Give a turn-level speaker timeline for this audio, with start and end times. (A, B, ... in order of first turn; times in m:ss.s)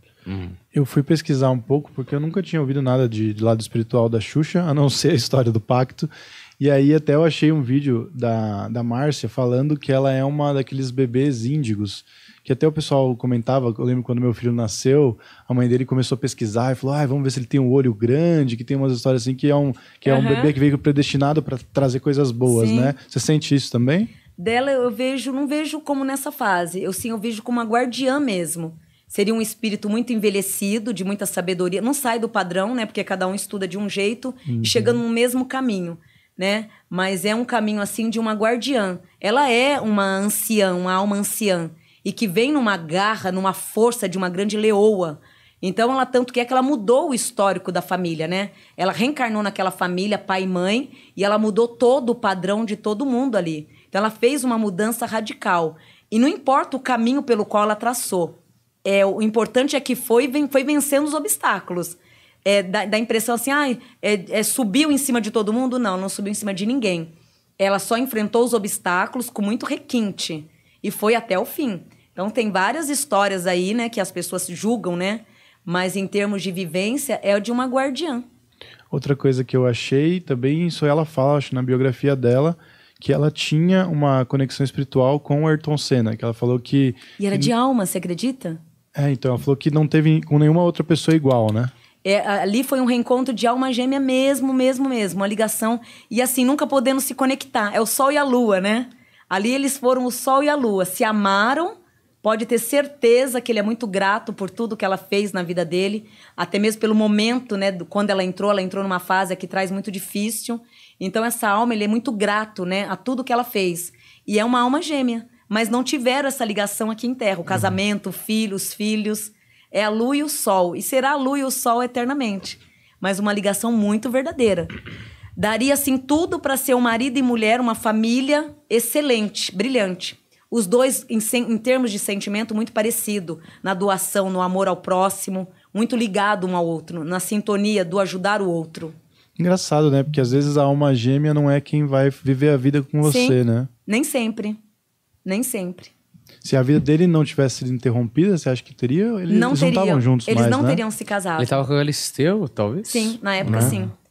0:00.2-0:00.6 A
0:00.7-0:24.1 B
0:20.0-0:20.5 C
0:22.4-0:22.9 C
0:24.4-1:18.2 C
0:34.5-0:35.0 B
1:18.9-1:27.5 B
1:27.2-1:28.6 C
1:28.9-1:31.7 B
1:32.0-2:04.7 C
2:05.4-2:18.9 C
2:19.4-2:23.7 B
2:23.0-2:24.6 C
2:25.2-2:25.9 C
2:26.4-2:30.8 B
2:29.3-2:31.7 C
2:31.4-2:33.7 A
2:32.8-2:33.9 C
2:33.4-2:33.8 B